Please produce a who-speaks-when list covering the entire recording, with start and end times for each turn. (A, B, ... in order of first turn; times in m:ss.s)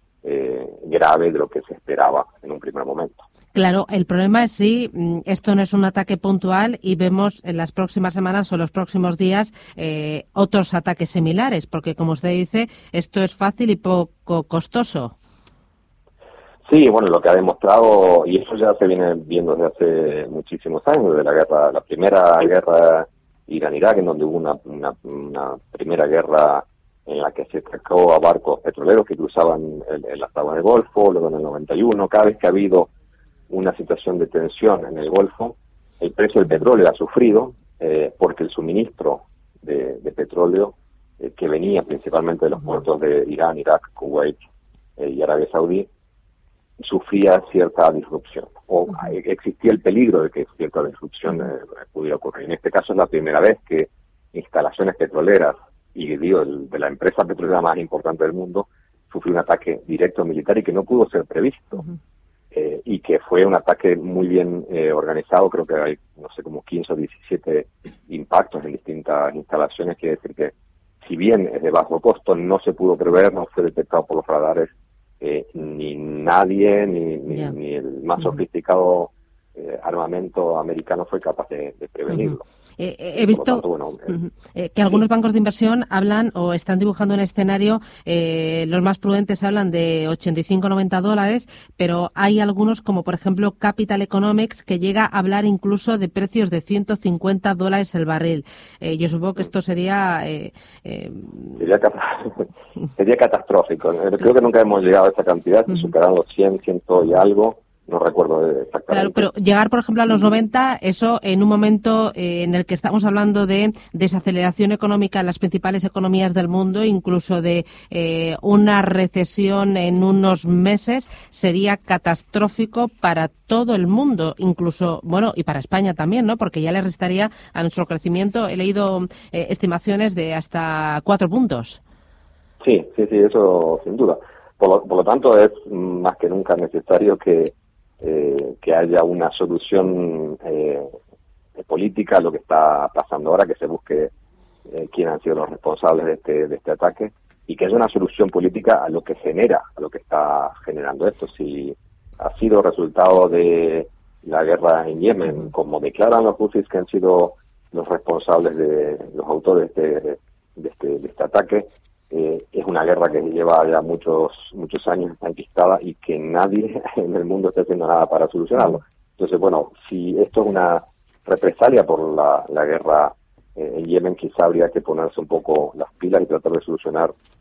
0:00.2-0:03.2 A
0:03.5-0:15.2 B
0:16.7-0:32.9 A
0:33.5-0:44.4 A
0:45.0-0:45.9 A
0:46.8-1:01.8 A
1:02.5-1:22.4 A
1:22.1-1:41.6 B
1:23.1-1:24.2 A
1:41.6-1:49.3 A
1:48.9-2:11.8 B
2:12.6-2:20.9 A
2:21.6-2:24.1 A
2:24.7-2:57.1 A